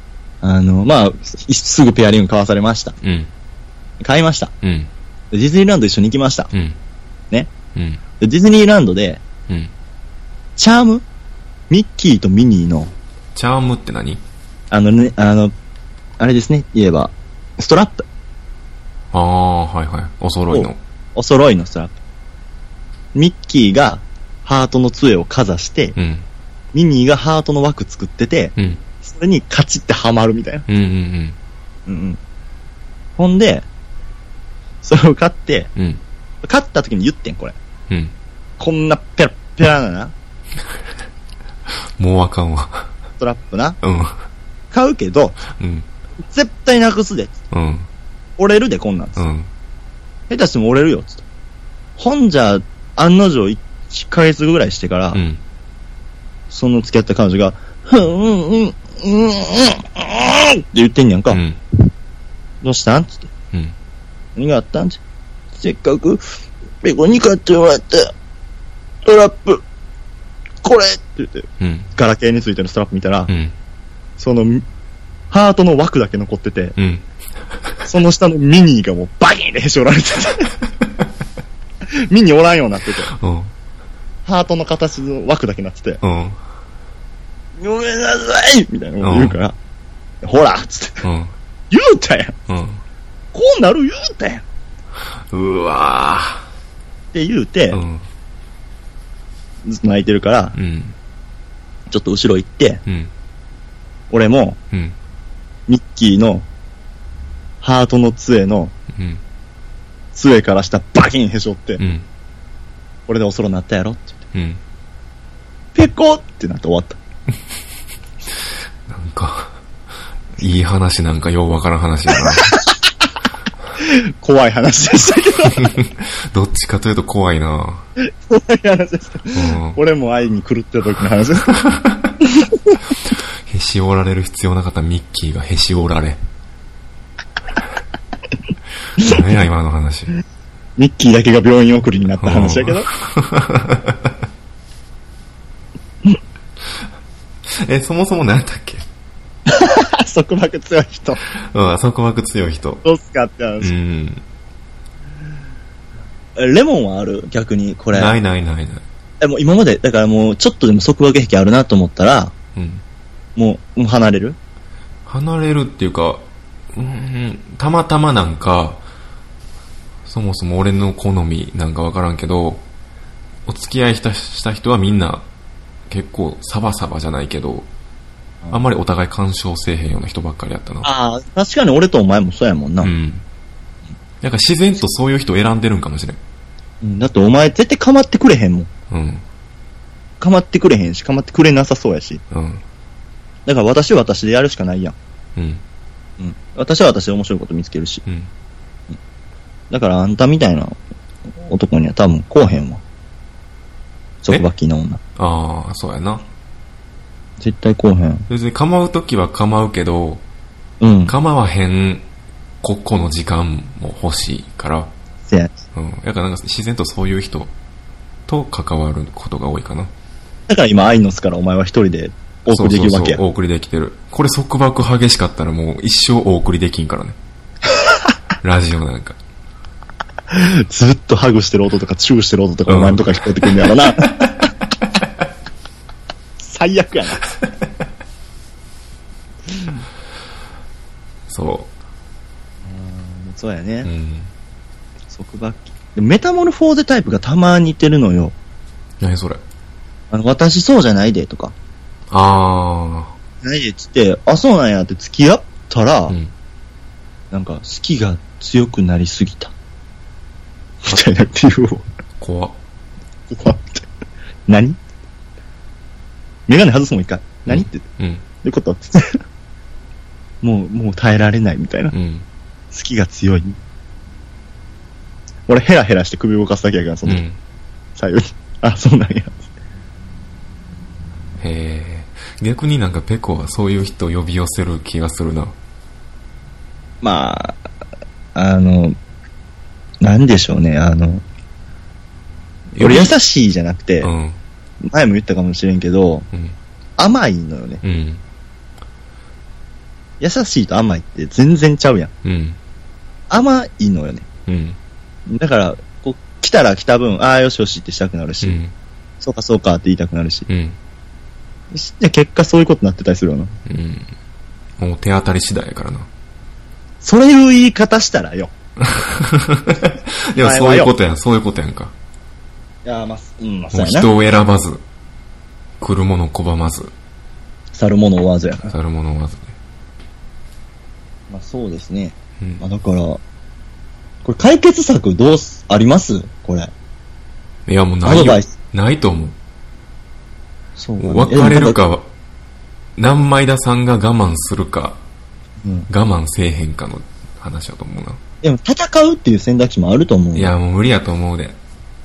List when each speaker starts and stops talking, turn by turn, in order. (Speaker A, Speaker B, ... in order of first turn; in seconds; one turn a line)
Speaker A: 0.4-3.0
Speaker B: 3.0-3.3
Speaker A: 4.0-4.5
Speaker B: 4.6-4.9
Speaker A: 5.3-6.5
Speaker B: 6.5-6.8
Speaker B: 7.7-8.0
Speaker A: 8.2-9.2
Speaker A: 10.6-11.0
Speaker A: 11.7-12.9
Speaker B: 13.3-14.2
Speaker A: 14.7-15.5
Speaker A: 16.2-18.1
Speaker B: 19.1-20.8
Speaker A: 20.5-21.9
Speaker A: 23.1-25.9
Speaker B: 25.9-26.2
Speaker A: 26.7-30.6
Speaker B: 28.6-28.8
Speaker B: 30.7-31.4
Speaker A: 31.9-32.2
Speaker A: 33.2-33.6
Speaker A: 34.8-35.7
Speaker B: 35.8-36.0
Speaker A: 36.4-37.5
Speaker B: 37.9-38.1
Speaker A: 38.6-40.1
Speaker B: 41.7-42.9
Speaker A: 43.2-43.8
Speaker B: 43.8-44.2
Speaker A: 44.7-45.4
Speaker B: 45.5-45.9
Speaker A: 46.2-47.3
Speaker B: 47.5-47.9
Speaker A: 48.4-49.2
Speaker B: 49.2-49.5
Speaker A: 50.3-51.2
Speaker A: 52.0-55.2
Speaker B: 55.1-55.4
Speaker A: 56.5-61.4
Speaker B: 61.3-61.6
Speaker A: 62.6-63.3
Speaker A: 64.3-65.0
Speaker A: 65.5-66.2
Speaker A: 66.8-68.1
Speaker A: 69.0-69.6
Speaker A: 70.6-73.3
Speaker B: 71.6-71.9
Speaker B: 73.3-73.5
Speaker A: 74.2-74.6
Speaker A: 75.3-76.8
Speaker B: 76.8-77.8
Speaker A: 77.8-80.5
Speaker A: 81.9-83.1
Speaker B: 83.1-83.5
Speaker A: 84.2-86.0
Speaker B: 86.0-86.4
Speaker A: 87.6-89.5
Speaker B: 89.0-89.4
Speaker A: 90.2-91.0
Speaker B: 91.0-91.3
Speaker A: 91.7-92.3
Speaker B: 92.5-92.8
Speaker A: 93.3-94.4
Speaker B: 95.2-96.5
Speaker A: 97.1-97.8
Speaker B: 97.7-98.0
Speaker A: 99.6-100.6
Speaker B: 100.5-101.0
Speaker A: 101.9-102.8
Speaker B: 102.8-103.1
Speaker A: 104.1-104.6
Speaker A: 105.7-106.5
Speaker A: 107.6-108.7
Speaker B: 108.9-109.2
Speaker A: 110.1-111.8
Speaker B: 111.8-112.1
Speaker A: 113.1-114.2
Speaker B: 114.3-114.6
Speaker A: 115.7-117.0
Speaker B: 118.8-119.6
Speaker B: 120.4-122.6
Speaker A: 122.2-122.8
Speaker A: 123.8-125.7
Speaker B: 125.4-127.9
Speaker A: 128.0-131.5
Speaker B: 129.3-129.8
Speaker B: 131.4-132.1
Speaker A: 132.2-132.8
Speaker B: 133.0-136.2
Speaker B: 138.9-140.1
Speaker A: 140.8-142.9
Speaker B: 142.2-144.2
Speaker B: 147.5-148.8
Speaker A: 149.5-151.2
Speaker B: 151.4-152.8
Speaker A: 152.8-153.7
Speaker B: 153.6-154.2
Speaker A: 156.3-158.2
Speaker B: 157.9-158.8
Speaker A: 159.2-162.3
Speaker B: 162.6-162.8
Speaker A: 163.3-164.4
Speaker B: 165.1-168.8
Speaker B: 170.0-172.6
Speaker B: 173.4-175.3
Speaker B: 175.9-177.7
Speaker B: 178.5-180.9
Speaker A: 180.8-182.9
Speaker B: 182.8-183.2
Speaker B: 184.2-186.2
Speaker A: 186.8-188.7
Speaker B: 188.9-189.2
Speaker A: 190.2-192.2
Speaker B: 192.3-192.6
Speaker A: 193.4-194.9
Speaker B: 195.3-195.6
Speaker A: 196.2-198.0
Speaker B: 198.1-198.3
Speaker A: 199.7-200.8
Speaker A: 201.4-202.8
Speaker A: 204.2-205.0
Speaker B: 205.2-206.3
Speaker A: 207.4-208.3
Speaker B: 208.3-210.2
Speaker A: 210.8-211.1
Speaker B: 211.1-212.1
Speaker B: 212.6-214.9
Speaker A: 215.3-215.6
Speaker B: 215.7-217.5
Speaker B: 218.3-219.9
Speaker A: 220.5-223.2
Speaker B: 222.5-227.2
Speaker B: 228.4-229.2
Speaker A: 230.3-234.5
Speaker B: 232.7-233.6
Speaker A: 236.4-237.2
Speaker A: 239.5-239.8
Speaker B: 241.3-241.7
Speaker A: 242.6-243.9
Speaker B: 243.8-244.3
Speaker A: 245.1-248.3
Speaker B: 249.0-249.4
Speaker A: 250.1-251.5
Speaker B: 252.1-253.1
Speaker A: 253.4-256.1
Speaker B: 256.1-256.3
Speaker A: 257.3-259.5
Speaker A: 260.8-261.9
Speaker B: 262.2-262.6
Speaker A: 263.3-263.9
Speaker A: 264.5-264.8
Speaker A: 266.5-267.8
Speaker B: 267.4-268.2
Speaker A: 268.4-269.2
Speaker A: 270.4-271.9
Speaker B: 271.9-272.3
Speaker A: 272.7-273.6
Speaker A: 275.5-277.2
Speaker B: 277.1-277.4
Speaker A: 278.0-279.4
Speaker B: 281.4-285.6
Speaker A: 287.0-287.6
Speaker A: 288.3-288.9
Speaker A: 290.0-291.2
Speaker B: 292.7-293.1
Speaker A: 292.8-294.1
Speaker B: 294.0-294.4
Speaker A: 294.8-296.3
Speaker B: 296.3-296.6
Speaker A: 297.0-297.8
Speaker B: 297.8-298.2
Speaker A: 300.2-302.1
Speaker B: 302.2-302.6
Speaker A: 303.3-304.2
Speaker B: 304.5-304.8
Speaker A: 305.3-308.6
Speaker B: 308.4-308.7
Speaker A: 309.2-310.5
Speaker B: 310.5-310.8
Speaker A: 311.7-313.5
Speaker B: 313.6-314.1
Speaker B: 314.8-316.1
Speaker A: 317.0-318.5
Speaker B: 318.8-321.9
Speaker A: 320.4-320.9
Speaker A: 322.8-324.1
Speaker B: 323.7-324.8
Speaker B: 325.8-326.9
Speaker A: 327.7-328.7
Speaker B: 328.6-329.6
Speaker A: 331.3-333.2
Speaker A: 334.2-336.7
Speaker B: 337.6-339.4
Speaker A: 338.0-338.5
Speaker A: 340.8-341.8
Speaker B: 341.0-342.1
Speaker B: 343.0-345.0
Speaker A: 345.6-345.9
Speaker B: 345.9-348.2
Speaker A: 348.4-350.5
Speaker B: 350.3-351.6